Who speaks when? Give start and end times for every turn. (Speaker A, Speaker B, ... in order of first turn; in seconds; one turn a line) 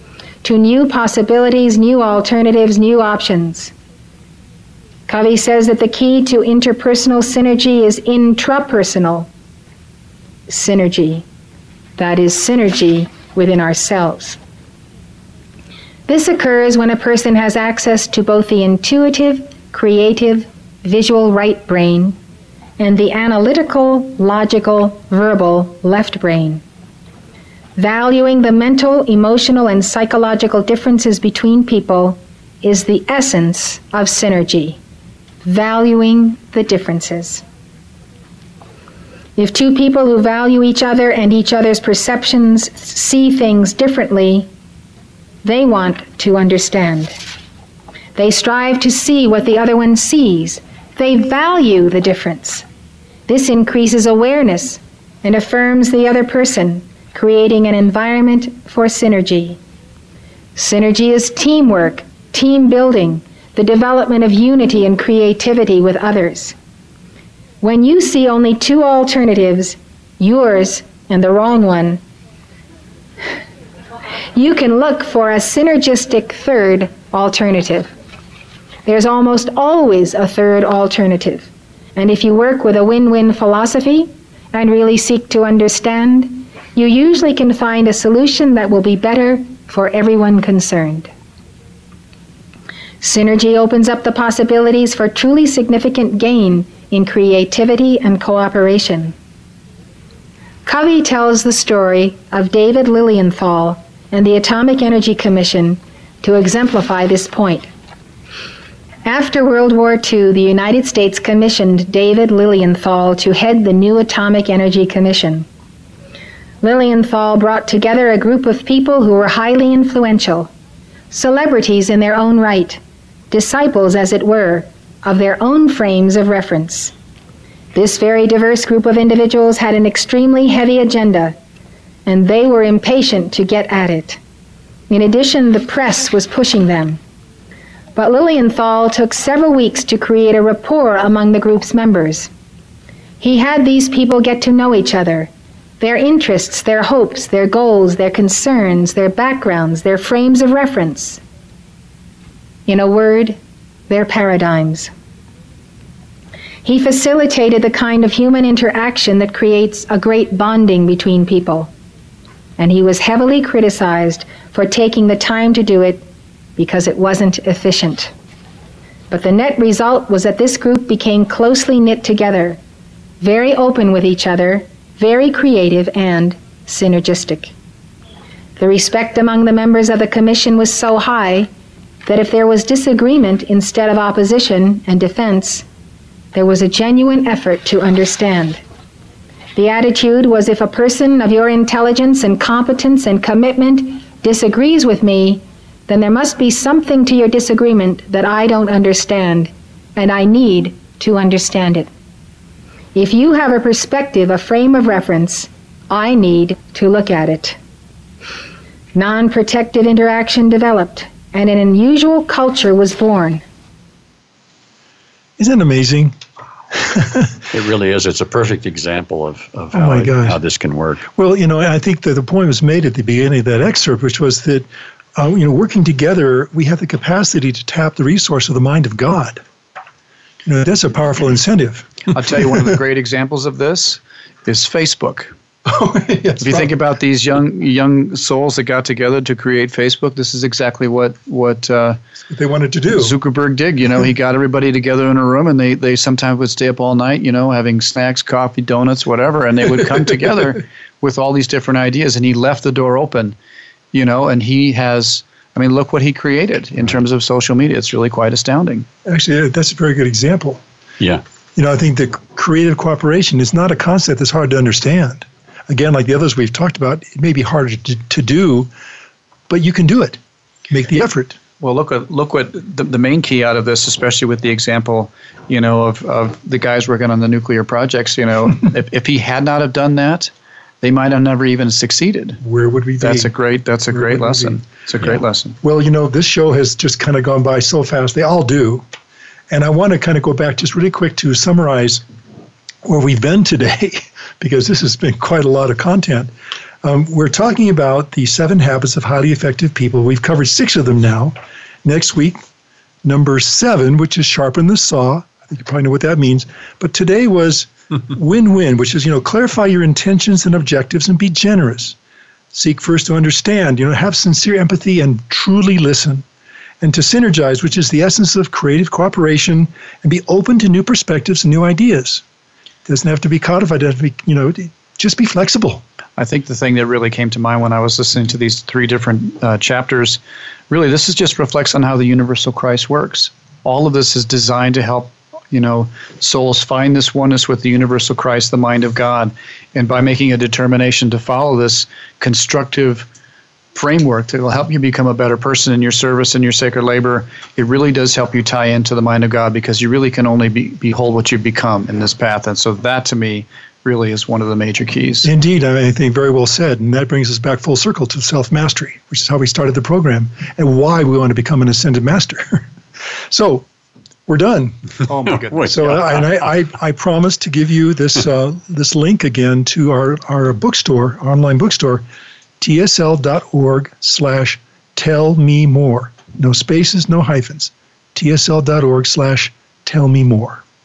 Speaker A: 0.4-3.7
Speaker A: 5.1-9.3
Speaker A: 10.5-11.2
Speaker A: 12.0-14.4
Speaker A: 16.1-22.2
Speaker A: 22.8-26.6
Speaker A: 27.8-34.8
Speaker A: 35.4-37.4
Speaker A: 39.4-44.5
Speaker A: 45.4-47.1
Speaker A: 48.1-52.6
Speaker A: 53.3-59.6
Speaker A: 60.5-66.5
Speaker A: 67.6-72.0
Speaker A: 74.3-77.9
Speaker A: 78.8-91.1
Speaker A: 93.0-99.1
Speaker A: 100.7-107.7
Speaker A: 109.0-115.5
Speaker A: 116.6-120.5
Speaker A: 121.1-126.9
Speaker A: 127.7-131.3
Speaker A: 132.1-134.2
Speaker A: 134.9-137.0
Speaker A: 137.9-142.3
Speaker A: 143.2-151.2
Speaker A: 152.7-153.4
Speaker A: 153.9-154.9
Speaker A: 156.6-161.7
Speaker A: 162.6-166.1
Speaker A: 166.6-168.1
Speaker A: 169.1-172.6
Speaker A: 173.2-177.5
Speaker A: 178.6-181.5
Speaker A: 182.1-185.6
Speaker A: 186.3-188.6
Speaker A: 189.5-201.9
Speaker A: 202.9-207.6
Speaker A: 208.9-213.4
Speaker B: 215.4-216.1
Speaker B: 216.7-217.3
Speaker C: 217.5-221.1
Speaker B: 219.7-220.4
Speaker B: 221.1-229.4
Speaker B: 230.4-232.1
Speaker D: 232.1-235.3
Speaker B: 235.7-236.7
Speaker D: 236.4-242.0
Speaker B: 242.3-243.2
Speaker D: 242.9-253.3
Speaker D: 253.9-258.9
Speaker B: 259.0-260.6
Speaker B: 261.6-268.7
Speaker B: 269.5-270.2
Speaker B: 270.7-271.4
Speaker D: 271.6-280.3
Speaker D: 280.8-282.4
Speaker B: 282.4-283.3
Speaker D: 283.0-285.6
Speaker B: 283.9-284.6
Speaker B: 285.6-288.8
Speaker B: 289.5-292.0
Speaker B: 292.8-296.3
Speaker B: 296.8-302.4
Speaker B: 303.0-311.9
Speaker B: 312.5-316.2
Speaker B: 316.8-322.2
Speaker B: 322.9-325.8
Speaker D: 326.2-330.2
Speaker D: 330.7-343.1
Speaker D: 343.7-355.3
Speaker B: 355.2-362.7
Speaker B: 363.3-363.7
Speaker B: 364.3-364.8
Speaker D: 365.1-366.3
Speaker C: 365.5-365.8
Speaker B: 365.6-372.0
Speaker B: 372.6-380.6